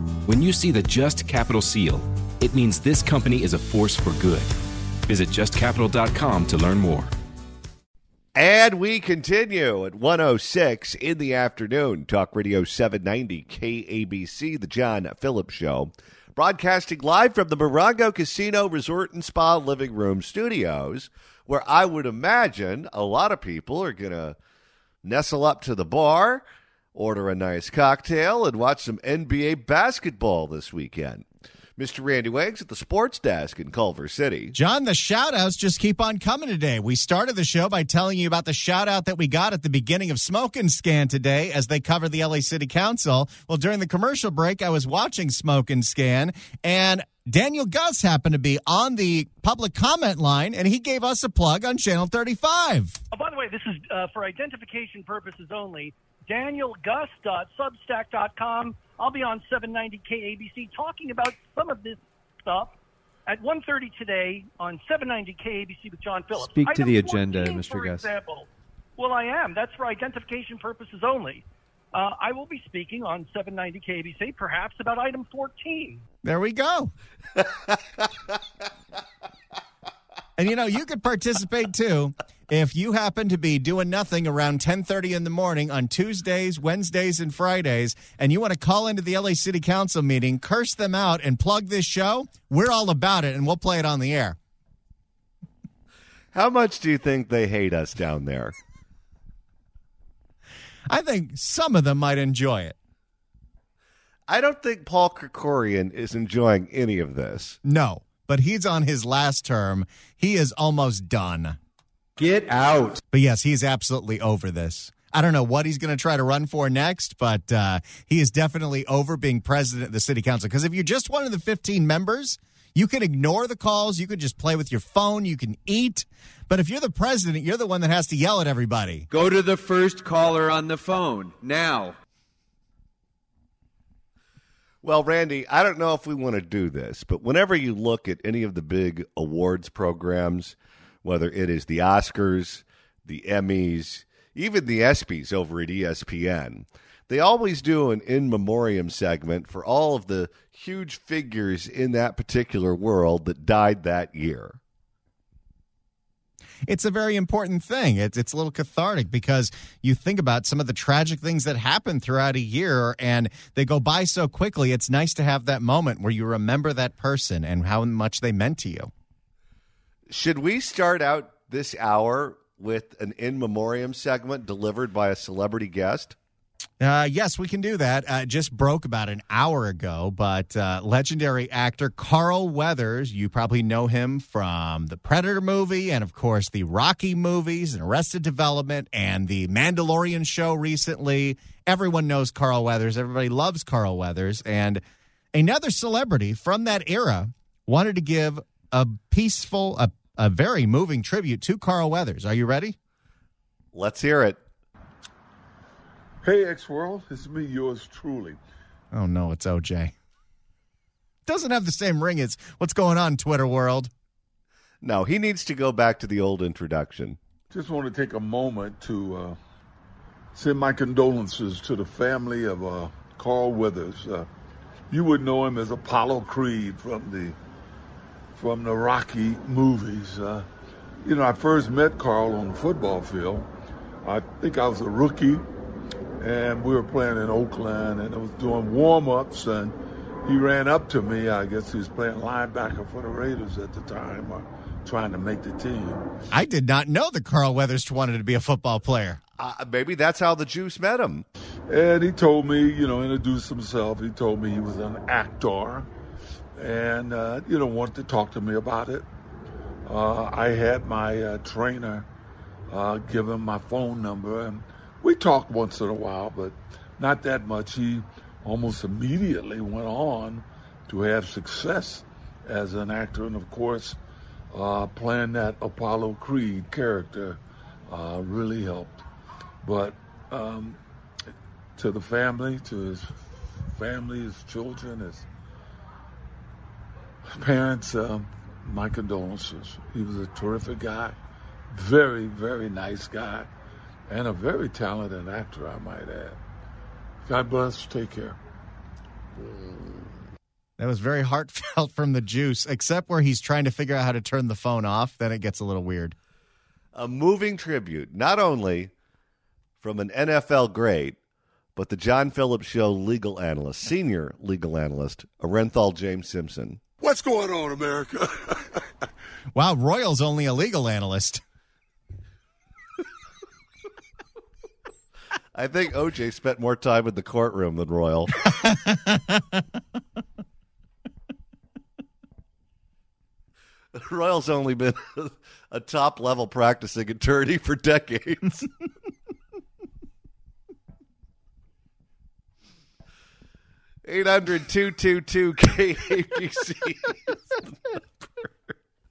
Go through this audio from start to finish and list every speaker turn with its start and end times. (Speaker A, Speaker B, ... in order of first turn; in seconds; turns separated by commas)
Speaker A: 0.3-4.5, Speaker A: 5.1-7.1, Speaker B: 8.4-24.4, Speaker B: 25.0-31.3, Speaker B: 31.8-34.5, Speaker C: 34.5-53.0, Speaker D: 53.1-62.7, Speaker D: 63.3-76.0, Speaker E: 66.4-68.0, Speaker C: 76.2-76.9, Speaker C: 80.4-94.4, Speaker B: 96.3-98.5, Speaker C: 100.9-102.8, Speaker B: 104.3-107.6, Speaker C: 107.6-111.6, Speaker E: 112.2-113.0, Speaker C: 113.1-129.1, Speaker E: 129.1-132.0, Speaker B: 134.8-154.6, Speaker C: 156.7-168.9, Speaker B: 170.1-176.2, Speaker C: 176.8-194.8, Speaker C: 195.3-202.8, Speaker B: 203.7-204.4, Speaker F: 206.2-208.4, Speaker C: 208.9-209.9, Speaker C: 211.3-213.9, Speaker B: 214.8-217.2, Speaker F: 217.5-219.4, Speaker F: 220.3-224.3, Speaker F: 224.9-227.4, Speaker F: 228.4-230.5, Speaker F: 231.0-233.5, Speaker F: 234.0-235.4, Speaker F: 236.2-246.1, Speaker C: 246.3-249.2, Speaker B: 249.4-251.2, Speaker F: 251.7-255.9, Speaker F: 256.6-259.1, Speaker F: 259.9-262.1, Speaker F: 262.7-274.0, Speaker F: 274.5-279.0, Speaker F: 279.6-280.8, Speaker F: 281.8-285.3, Speaker F: 287.3-291.2, Speaker F: 291.7-293.5, Speaker F: 294.1-296.4, Speaker F: 297.3-298.4, Speaker C: 300.8-306.1, Speaker B: 306.9-308.9, Speaker B: 309.8-311.2, Speaker B: 311.8-316.8, Speaker F: 317.0-318.6, Speaker C: 319.5-321.4, Speaker B: 325.5-328.3, Speaker C: 328.5-329.6, Speaker B: 333.9-338.7, Speaker B: 344.1-347.3